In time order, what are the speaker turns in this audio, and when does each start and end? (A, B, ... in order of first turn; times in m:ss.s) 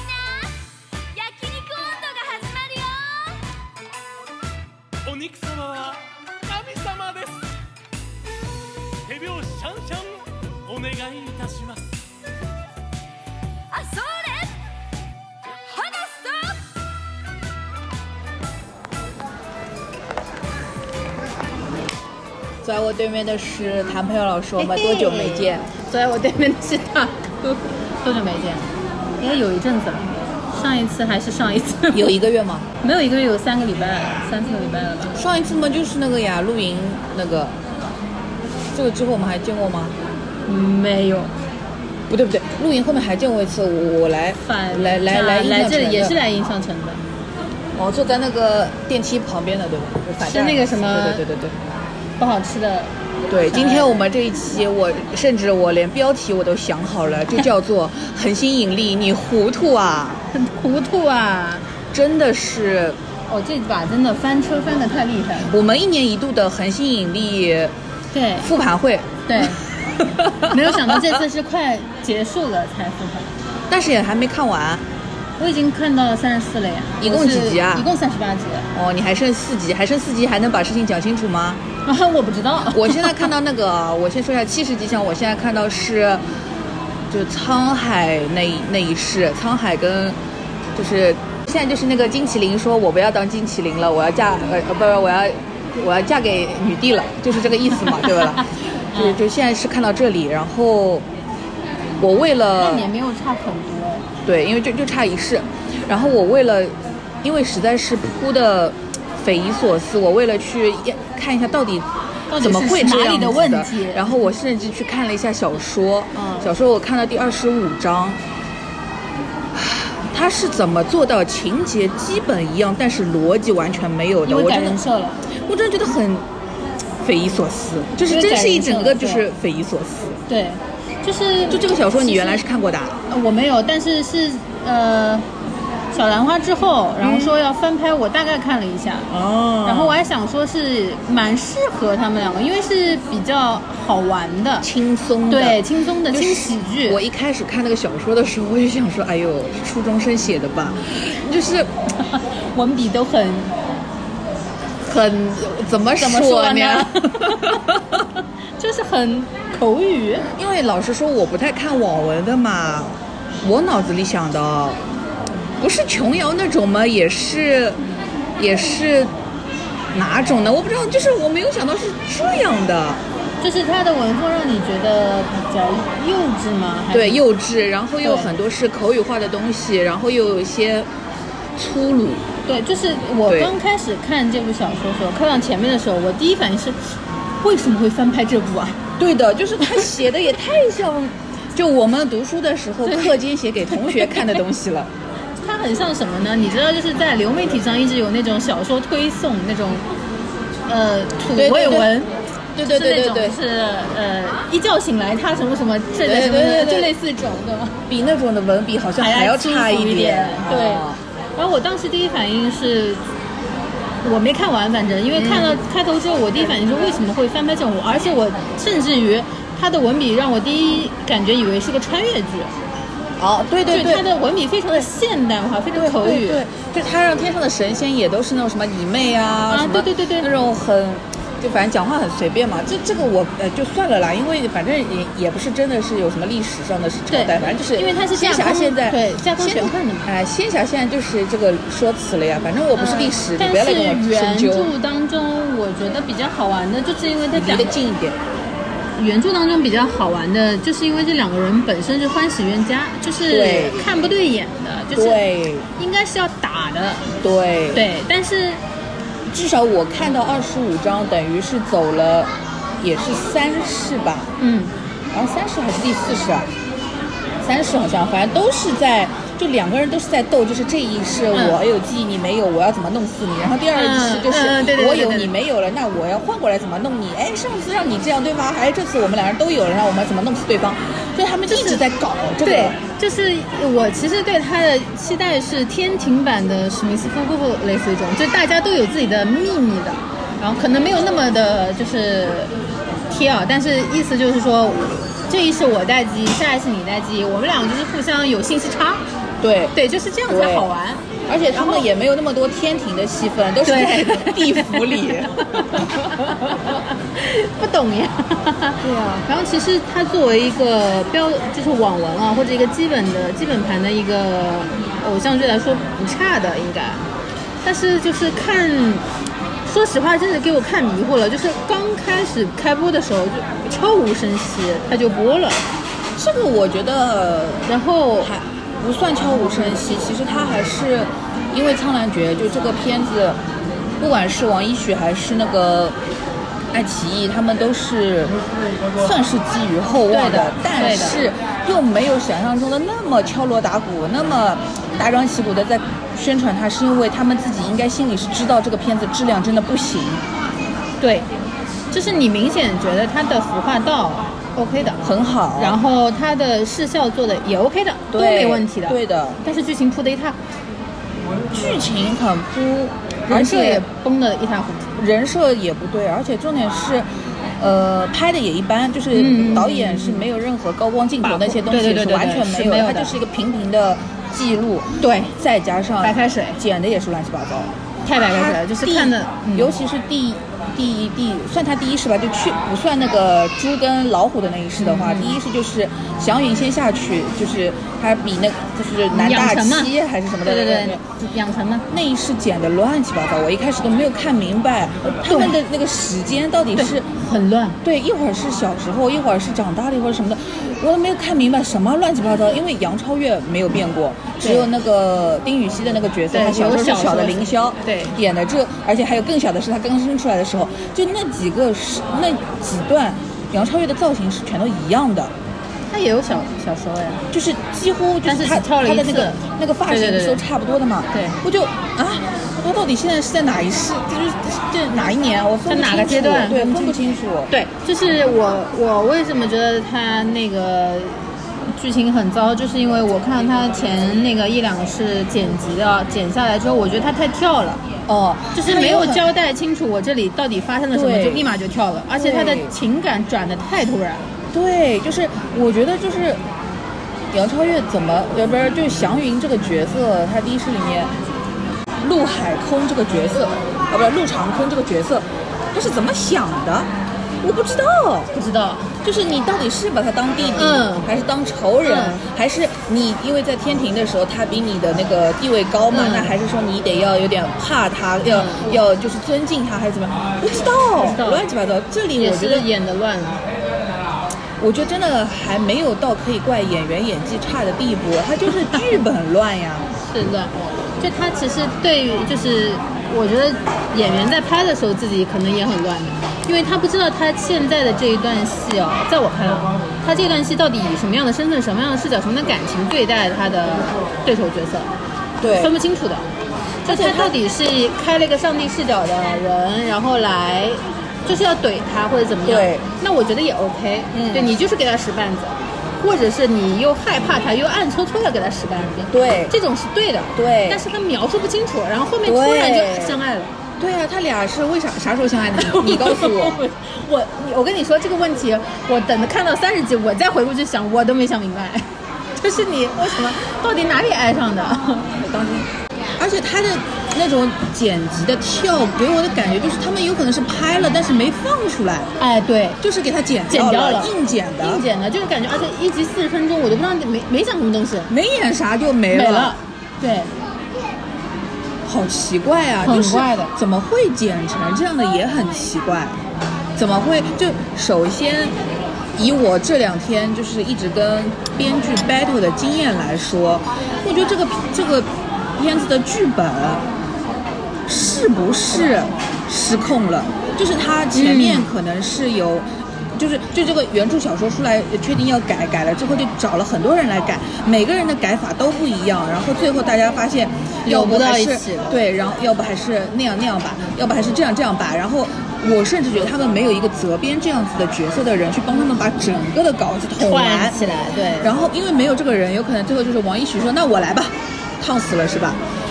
0:00.2-0:00.5 A
0:01.5-0:01.8 A
0:01.6-0:03.0 B
0:02.9-0:03.4 A
0:05.0-0:07.5 B
0:09.0-0:11.8 B
0:13.9-0:14.5 A
0:15.9-0:16.2 A
0:22.6-0:25.7 C
0:24.6-0:32.1 D
0:31.9-0:32.7 C
0:32.8-0:35.2 D
0:35.1-0:37.6 C
0:38.7-0:40.0 C
0:40.5-0:41.3 D
0:42.1-0:46.2 C
0:44.4-0:47.0 D
0:47.8-0:51.5 C
0:50.2-0:51.2 D
0:52.2-0:52.9 D
0:53.3-1:00.2 C
0:53.5-0:53.9 D
1:00.3-1:01.6 D
1:01.9-1:03.0 C
1:03.3-1:05.5 D
1:05.4-1:07.7 C
1:08.1-1:08.5 D
1:08.4-1:11.1 C
1:09.3-1:09.6 D
1:10.4-1:13.3 D
1:13.7-1:14.8 C
1:15.4-1:18.7 D
1:17.0-1:17.9 C
1:18.7-1:21.6 C
1:21.8-1:23.3 D
1:22.7-1:26.2 C
1:27.1-1:30.2 C
1:30.7-1:41.1 C
1:37.9-1:38.4 D
1:42.0-1:42.9 C
1:42.6-1:44.0 D
1:44.2-1:58.2 C
1:52.3-1:54.1 D
1:56.1-1:56.5 D
1:59.5-2:04.8 C
2:04.2-2:05.2 D
2:05.3-2:06.2 C
2:07.0-2:10.2 C
2:08.0-2:09.2 D
2:10.3-2:12.4 D
2:11.5-2:13.0 C
2:13.1-2:15.2 D
2:15.9-2:19.1 D
2:17.0-2:17.4 C
2:19.1-2:20.0 C
2:19.6-2:24.7 D
2:24.6-2:31.7 C
2:25.3-2:27.0 D
2:32.1-2:33.5 D
2:34.8-2:38.0 C
2:36.0-2:37.6 D
2:38.6-2:40.3 D
2:40.3-2:44.8 C
2:45.6-2:47.8 C
2:48.4-2:49.1 C
2:49.9-2:53.0 C
2:53.4-2:57.2 D
2:56.9-3:00.9 C
2:58.0-2:58.3 D
3:01.6-3:02.2 C
3:02.4-3:08.8 D
3:03.2-3:03.5 C
3:09.0-3:14.9 C
3:12.8-3:13.2 D
3:13.7-3:14.4 D
3:15.4-3:19.8 D
3:20.7-3:27.8 D
3:21.3-3:21.9 C
3:22.6-3:23.4 C
3:26.0-3:26.9 C
3:27.9-3:31.0 C
3:29.0-3:33.0 D
3:34.0-3:42.5 D
3:35.1-3:35.6 C
3:43.2-3:44.0 C
3:43.7-3:46.4 D
3:45.7-4:04.7 C
3:49.5-3:50.3 D
3:57.1-4:00.1 D
4:02.7-4:07.8 D
4:07.3-4:08.2 C
4:09.0-4:17.1 D
4:13.3-4:13.8 C
4:14.9-4:15.7 C
4:17.2-4:17.8 C
4:17.7-4:18.6 D
4:19.3-4:24.3 C
4:24.4-4:24.7 D
4:25.1-4:26.5 C
4:27.4-4:42.8 C
4:31.3-4:31.6 D
4:33.7-4:35.3 D
4:41.5-4:41.8 D
4:42.4-4:52.5 D
4:53.1-4:59.0 D
4:59.4-4:59.8 C
4:59.7-5:01.9 D
5:00.3-5:00.7 C
5:01.3-5:06.6 C
5:03.6-5:17.0 D
5:08.8-5:09.2 C
5:17.6-5:19.1 D
5:19.6-5:25.6 D
5:26.2-5:27.7 C
5:27.7-5:28.3 D
5:28.2-5:33.4 C
5:34.0-5:36.0 C
5:36.7-5:38.4 C
5:39.0-5:50.2 C
5:40.1-5:41.2 D
5:51.0-5:51.3 D
5:51.9-5:55.0 D
5:55.0-5:55.8 C
5:55.6-6:00.4 D
5:58.1-5:59.4 C
6:01.5-6:03.8 C
6:03.3-6:05.0 D
6:05.0-6:07.0 C
6:07.6-6:17.7 C
6:09.1-6:10.3 D
6:11.2-6:13.2 D
6:15.0-6:15.3 D
6:16.0-6:16.6 D
6:18.0-6:19.7 D
6:18.3-6:31.0 C
6:24.8-6:25.4 D
6:29.1-6:31.9 D
6:31.9-6:37.1 C
6:35.2-6:35.6 D
6:36.8-6:37.8 D
6:37.8-6:55.3 C
6:44.4-6:44.7 D
6:46.3-6:48.1 D
6:55.9-6:57.2 D
6:57.3-7:07.5 C
6:58.2-7:00.4 D
7:01.1-7:01.4 D
7:05.7-7:07.0 D
7:07.5-7:17.8 D
7:18.1-7:19.2 C
7:18.5-7:24.2 D
7:20.9-7:21.5 C
7:22.1-7:22.7 C
7:24.5-7:26.4 C
7:27.3-7:31.1 C
7:32.0-7:36.9 C
7:37.4-7:38.3 C
7:38.3-7:38.9 D
7:39.0-7:52.7 C
7:40.6-7:41.1 D
7:41.8-7:42.2 D
7:45.9-7:46.3 D
7:48.3-7:48.8 D
7:51.0-7:51.4 D
7:52.2-7:53.4 D
7:54.6-7:59.9 C
8:00.0-8:14.9 D
8:15.4-8:15.7 C
8:15.5-8:16.2 D
8:16.8-8:33.5 D
8:16.8-8:17.3 C
8:22.4-8:22.8 C
8:24.1-8:24.5 C
8:29.1-8:29.5 C
8:30.3-8:30.9 C
8:32.2-8:33.2 C
8:33.8-8:36.6 C
8:35.6-8:45.2 D
8:45.2-8:52.1 C
8:52.2-8:52.8 D
8:52.8-8:54.8 C
8:53.5-8:58.1 D
8:58.1-8:59.6 C
8:59.1-9:00.3 D
9:01.8-9:06.2 C
9:02.8-9:03.5 D
9:06.8-9:08.5 C
9:09.2-9:16.8 C
9:17.9-9:40.8 C
9:21.1-9:21.7 D
9:30.8-9:32.0 D
9:40.2-9:41.5 D
9:41.4-9:45.6 C